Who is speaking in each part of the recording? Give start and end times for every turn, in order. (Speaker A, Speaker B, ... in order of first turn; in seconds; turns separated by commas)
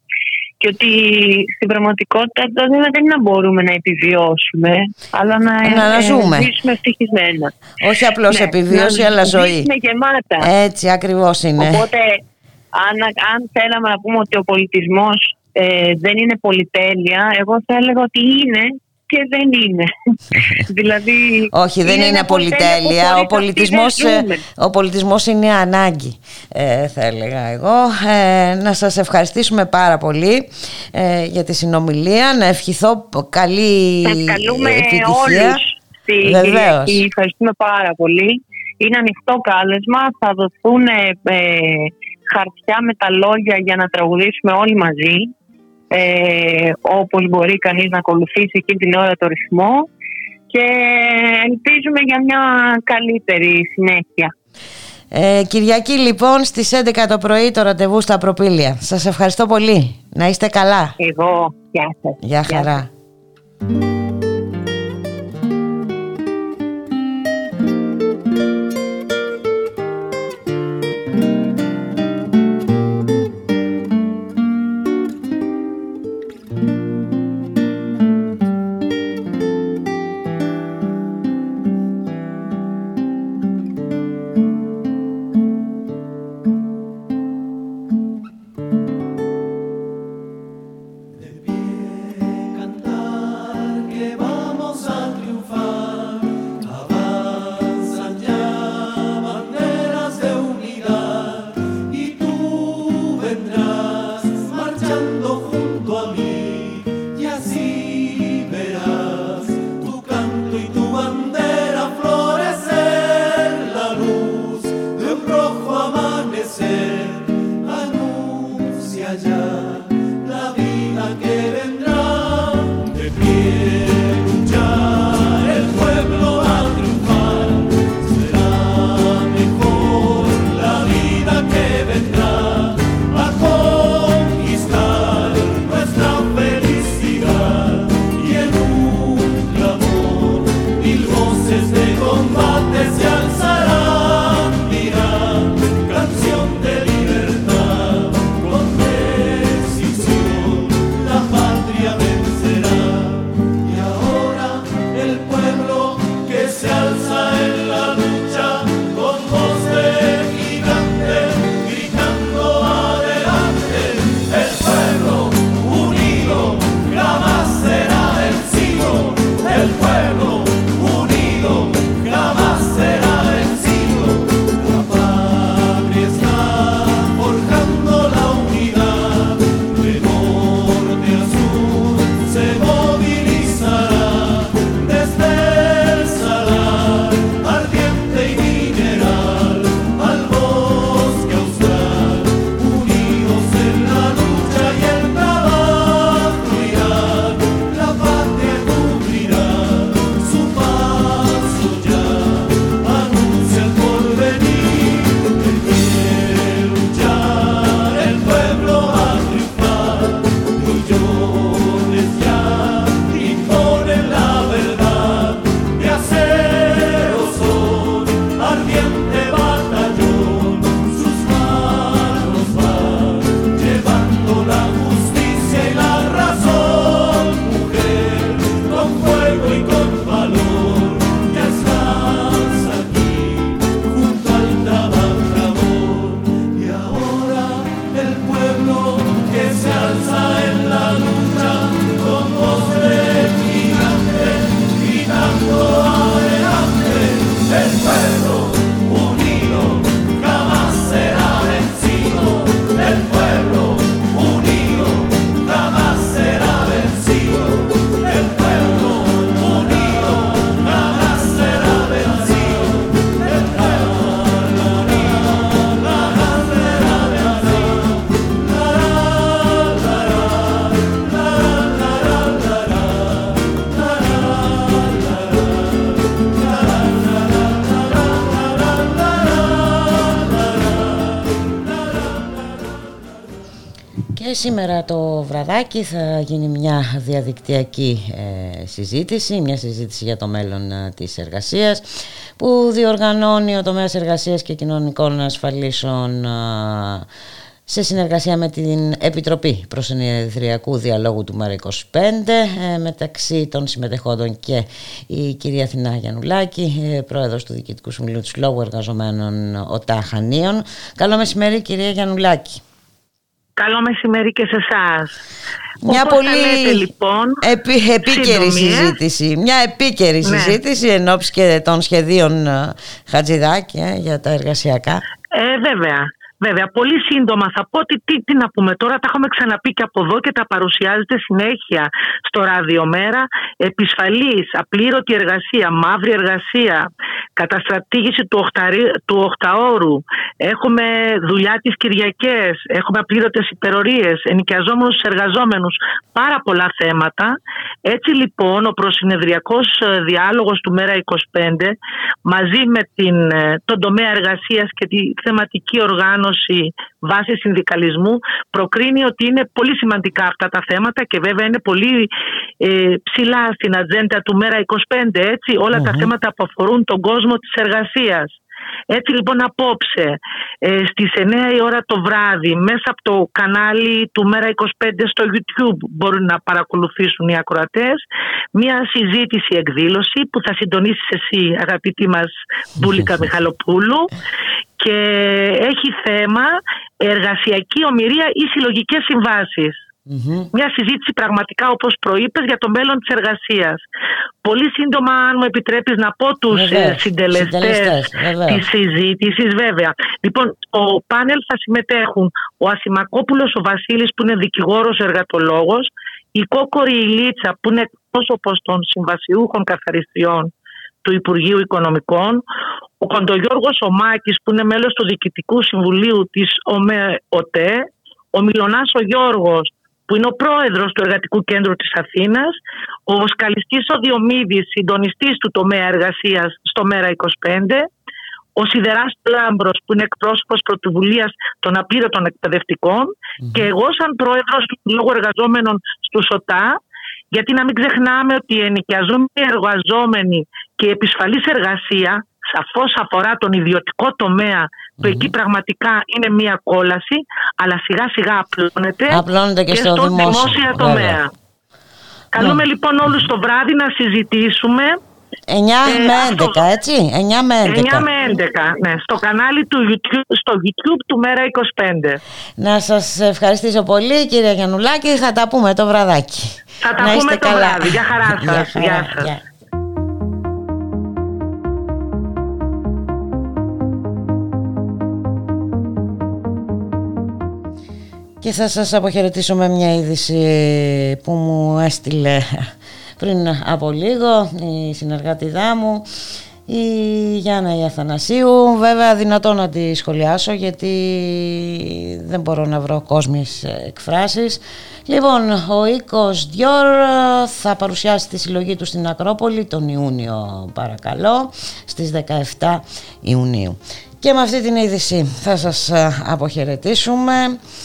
Speaker A: 0.6-7.5, Speaker B: 5.6-6.5, Speaker B: 7.8-9.7, Speaker A: 8.2-10.5, Speaker B: 10.4-11.8, Speaker A: 11.6-12.2, Speaker A: 12.7-19.9, Speaker A: 20.6-24.4, Speaker B: 21.5-35.6, Speaker A: 34.0-45.3, Speaker B: 36.2-37.0, Speaker A: 45.9-49.9, Speaker A: 50.5-54.3, Speaker B: 55.1-61.0, Speaker A: 61.0-62.8, Speaker B: 62.2-62.9, Speaker B: 284.1-297.1, Speaker B: 297.7-312.6, Speaker C: 313.6-315.1, Speaker B: 315.8-316.9, Speaker C: 315.9-317.4, Speaker B: 317.4-325.0, Speaker C: 318.1-318.9, Speaker C: 320.2-320.6, Speaker C: 325.3-351.7, Speaker C: 352.2-362.1, Speaker C: 362.6-368.3, Speaker B: 365.7-366.1, Speaker C: 368.9-378.0, Speaker C: 378.5-384.1, Speaker C: 384.8-389.9, Speaker B: 390.1-390.5, Speaker C: 390.5-393.8, Speaker C: 394.4-410.5, Speaker B: 396.5-398.6, Speaker C: 411.0-412.4, Speaker C: 413.0-427.9, Speaker C: 428.6-436.8, Speaker B: 433.4-433.7, Speaker C: 437.3-451.3, Speaker B: 445.0-445.3, Speaker B: 449.1-451.2, Speaker C: 452.3-455.0, Speaker B: 455.5-458.1, Speaker C: 455.9-456.6, Speaker C: 457.6-462.2, Speaker B: 462.6-469.4, Speaker C: 466.8-469.4, Speaker B: 478.4-482.7, Speaker B: 483.2-486.1, Speaker B: 486.7-507.6